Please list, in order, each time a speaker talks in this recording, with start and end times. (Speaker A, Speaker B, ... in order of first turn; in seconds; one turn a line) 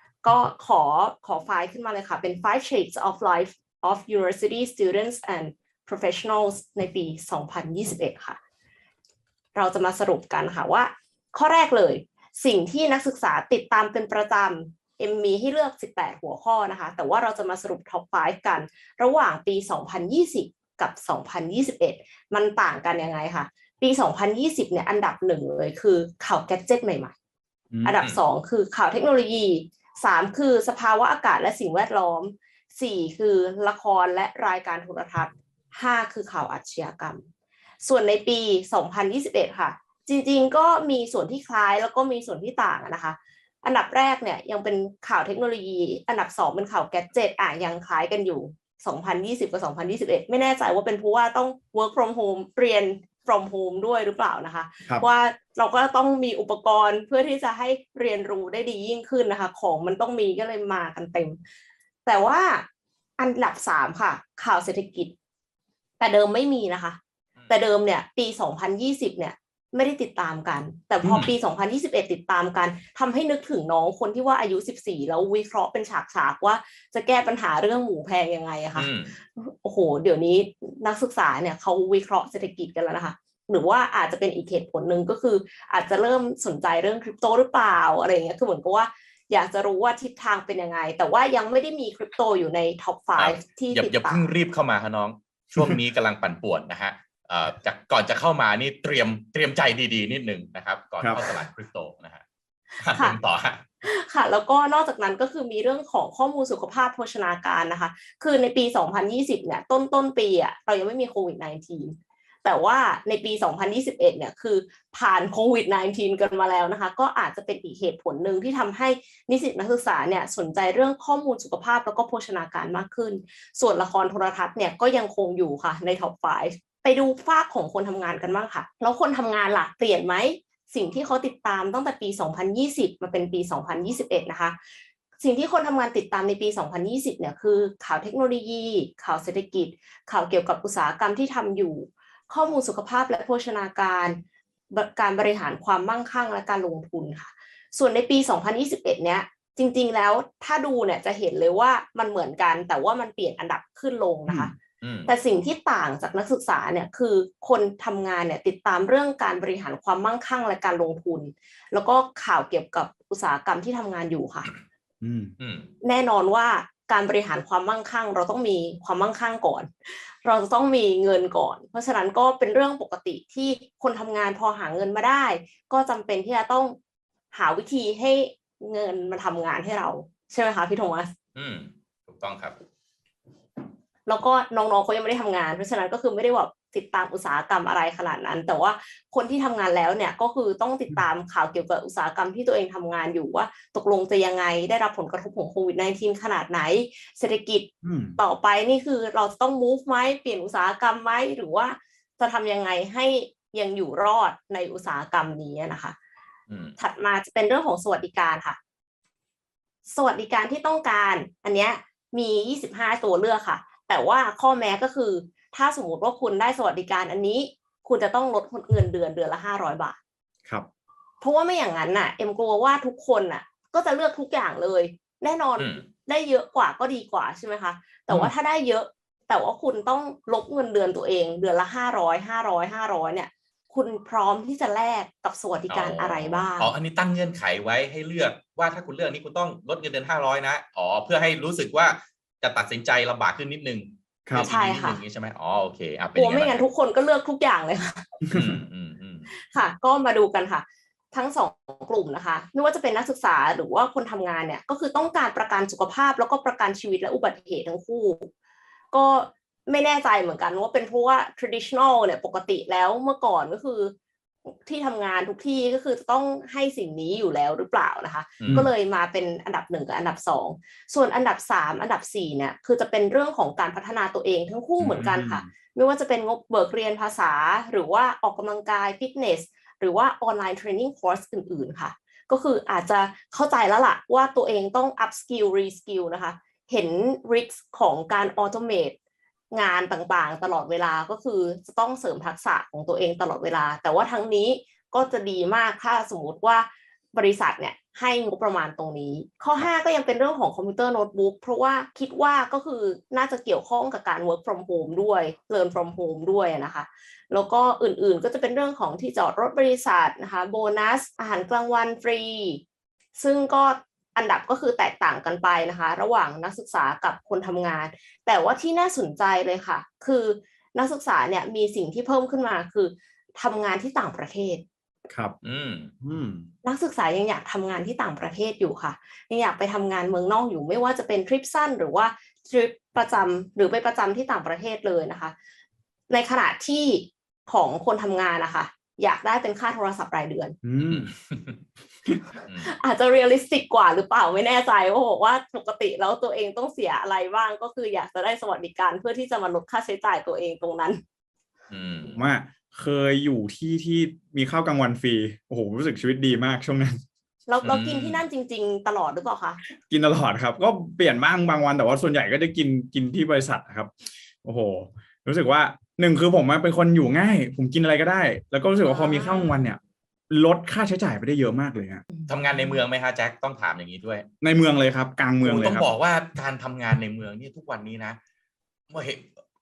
Speaker A: 0.2-8.4
Speaker A: 9.5-27.1
Speaker B: 27.7-28.0
Speaker A: 27.8-37.2
Speaker A: 37.8-61.4
Speaker A: 62.0-62.6
Speaker A: 63.2-65.1
Speaker A: 66.0-94.3
Speaker B: 71.0-71.3
Speaker C: 78.7-79.1
Speaker C: 93.2-102.2
Speaker B: 101.0-101.3
Speaker C: 102.8-103.6
Speaker A: 102.9-103.2
Speaker A: 103.8-134.6
Speaker A: 135.2-144.2
Speaker A: 144.7-164.5
Speaker B: 154.3-154.5
Speaker C: 154.8-155.1
Speaker B: 165.0-165.3
Speaker C: 165.4-165.7
Speaker A: 165.8-169.7
Speaker A: 170.2-176.8
Speaker A: 177.3-181.1
Speaker C: 181.3-182.6
Speaker A: 184.1-205.9
Speaker B: 197.8-198.2
Speaker C: 206.5-206.8
Speaker A: 206.8-208.6
Speaker A: 209.9-220.0
Speaker A: 221.2-236.7
Speaker C: 225.6-225.8
Speaker C: 235.7-246.6
Speaker A: 244.4-245.0
Speaker A: 246.2-248.2
Speaker C: 248.3-249.3
Speaker A: 249.4-258.3
Speaker A: 258.9-263.9
Speaker A: 264.5-288.9
Speaker C: 268.4-268.7
Speaker B: 274.8-275.5
Speaker A: 289.5-312.6
Speaker A: 313.2-324.6
Speaker B: 325.1-325.3
Speaker C: 325.4-325.9
Speaker B: 326.0-326.4
Speaker A: 326.6-335.3
Speaker A: 336.1-340.5
Speaker B: 340.6-341.1
Speaker C: 340.8-341.6
Speaker C: 342.4-342.7
Speaker A: 342.6-351.0
Speaker C: 351.7-352.2
Speaker B: 352.1-357.0
Speaker A: 357.5-359.6
Speaker C: 357.6-358.2
Speaker B: 359.9-372.0
Speaker A: 368.8-369.6
Speaker C: 372.3-374.3
Speaker B: 374.4-375.9
Speaker C: 375.4-378.2
Speaker C: 378.9-379.3